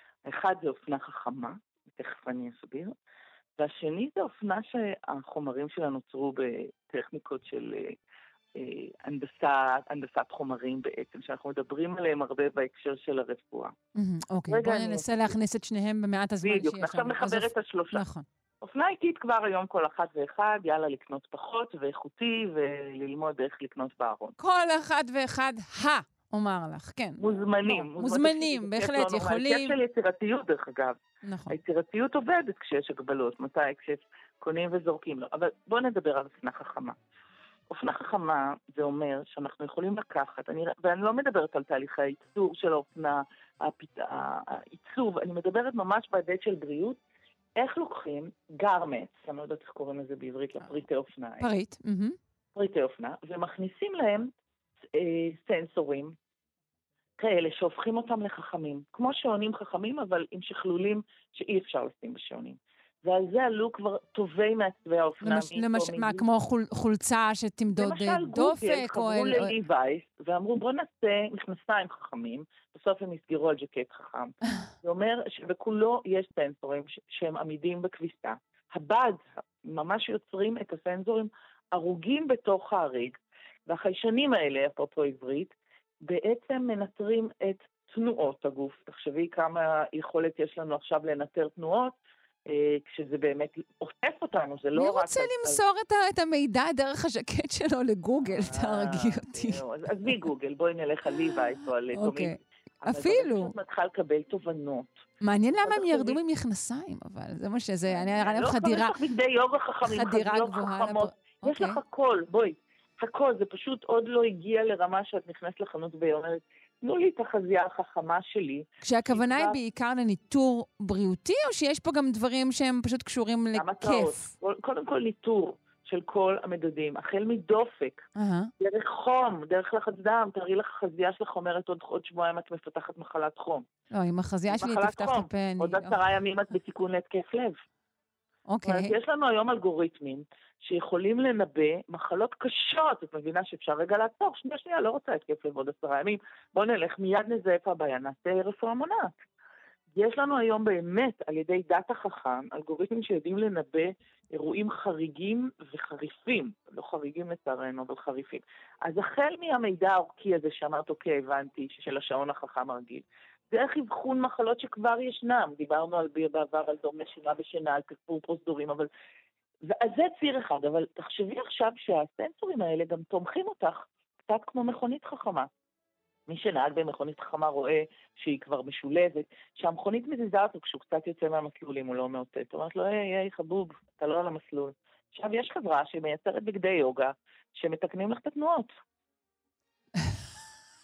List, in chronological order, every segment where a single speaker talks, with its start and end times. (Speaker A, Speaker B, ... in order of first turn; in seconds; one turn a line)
Speaker A: 0.2-3.0
Speaker A: 3.6-8.0
Speaker A: 8.6-13.7
Speaker B: 13.9-18.3
Speaker A: 14.5-15.3
Speaker A: 16.4-18.0
Speaker A: 18.6-24.3
Speaker B: 24.4-29.8
Speaker A: 27.2-37.0
Speaker B: 31.2-31.6
Speaker A: 37.7-47.0
Speaker A: 47.6-51.5
Speaker B: 51.4-52.2
Speaker A: 52.5-54.3
Speaker A: 55.0-56.2
Speaker A: 57.2-66.2
Speaker B: 65.2-69.5
Speaker A: 67.8-85.5
Speaker A: 86.0-92.0
Speaker A: 92.5-95.6
Speaker B: 94.8-99.6
Speaker A: 98.3-105.0
Speaker B: 101.9-103.5
Speaker B: 105.2-108.9
Speaker A: 105.6-106.2
Speaker A: 107.8-119.6
Speaker B: 109.8-111.8
Speaker B: 118.8-124.3
Speaker A: 123.5-128.0
Speaker B: 128.2-128.5
Speaker A: 128.6-133.7
Speaker B: 133.9-136.0
Speaker A: 134.5-137.6
Speaker B: 138.5-138.9
Speaker A: 138.6-149.1
Speaker A: 150.0-168.9
Speaker A: 169.6-175.5
Speaker A: 176.3-188.7